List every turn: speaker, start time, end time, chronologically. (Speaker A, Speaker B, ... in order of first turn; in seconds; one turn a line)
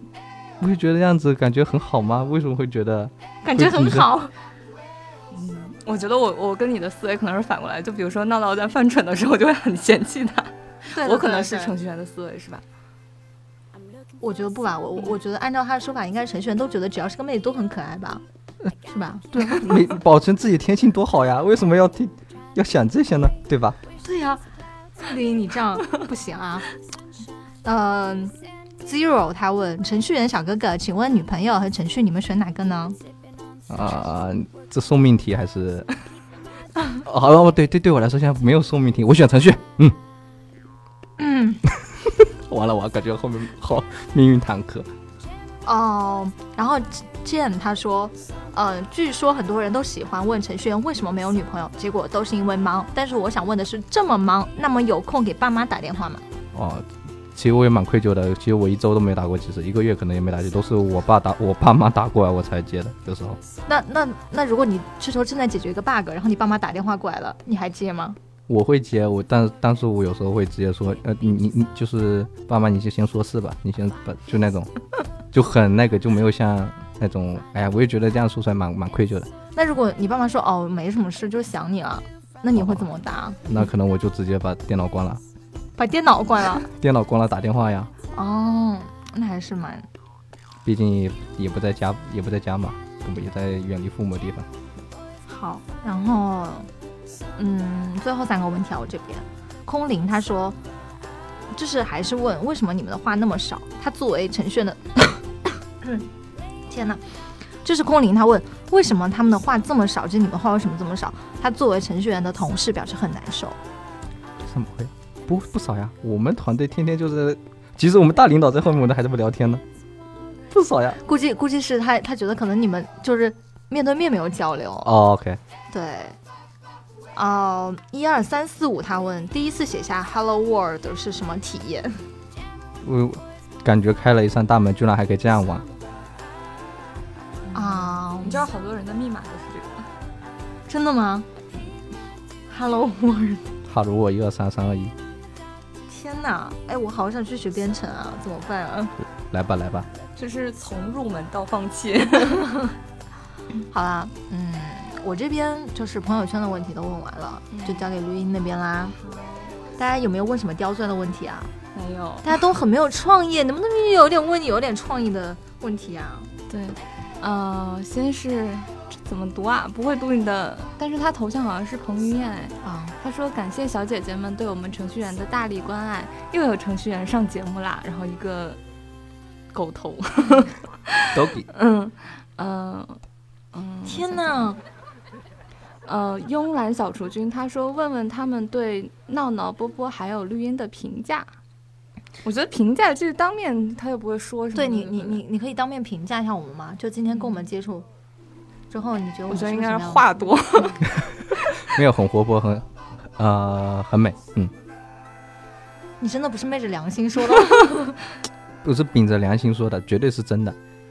Speaker A: 0.6-4.1
Speaker B: 3.4-4.3
Speaker C: 5.3-12.6
Speaker B: 10.9-11.7
Speaker B: 14.2-18.2
Speaker B: 18.8-19.6
Speaker A: 19.3-23.8
Speaker B: 24.0-24.4
Speaker B: 25.0-26.6
Speaker B: 27.6-33.0
Speaker A: 33.7-35.9
Speaker A: 37.0-40.0
Speaker B: 41.2-41.6
Speaker A: 42.1-44.9
Speaker B: 45.6-56.2
Speaker A: 56.5-63.4
Speaker B: 63.7-68.2
Speaker A: 68.5-74.7
Speaker A: 75.3-79.3
Speaker B: 79.5-83.5
Speaker A: 82.5-82.8
Speaker A: 83.4-85.2
Speaker B: 85.8-86.7
Speaker A: 86.7-87.9
Speaker B: 88.1-89.8
Speaker A: 90.6-94.5
Speaker B: 95.3-96.7
Speaker B: 97.4-100.6
Speaker B: 101.5-105.2
Speaker B: 105.8-106.1
Speaker B: 106.7-107.0
Speaker B: 107.6-113.6
Speaker A: 114.4-119.6
Speaker A: 120.5-121.0
Speaker B: 121.0-124.9
Speaker A: 124.8-125.4
Speaker B: 125.7-126.2
Speaker B: 127.1-132.0
Speaker A: 132.8-135.6
Speaker C: 137.4-139.9
Speaker B: 137.5-138.5
Speaker B: 140.7-141.3
Speaker B: 142.5-143.5
Speaker A: 143.7-144.9
Speaker B: 145.9-148.9
Speaker A: 149.0-149.9
Speaker C: 150.2-152.6
Speaker B: 153.7-158.9
Speaker C: 157.5-157.9
Speaker C: 159.0-159.6
Speaker B: 159.8-161.5
Speaker C: 161.7-162.4
Speaker B: 162.2-166.3
Speaker C: 166.5-178.6
Speaker B: 172.6-172.9
Speaker C: 179.5-183.0
Speaker A: 181.1-181.5
Speaker C: 183.5-184.5
Speaker B: 183.8-184.6
Speaker C: 185.8-191.3
Speaker C: 192.2-195.2
Speaker B: 194.5-197.9
Speaker B: 198.7-200.1
Speaker C: 199.3-200.8
Speaker C: 201.3-201.6
Speaker A: 201.7-204.5
Speaker B: 206.0-207.9
Speaker A: 208.6-210.6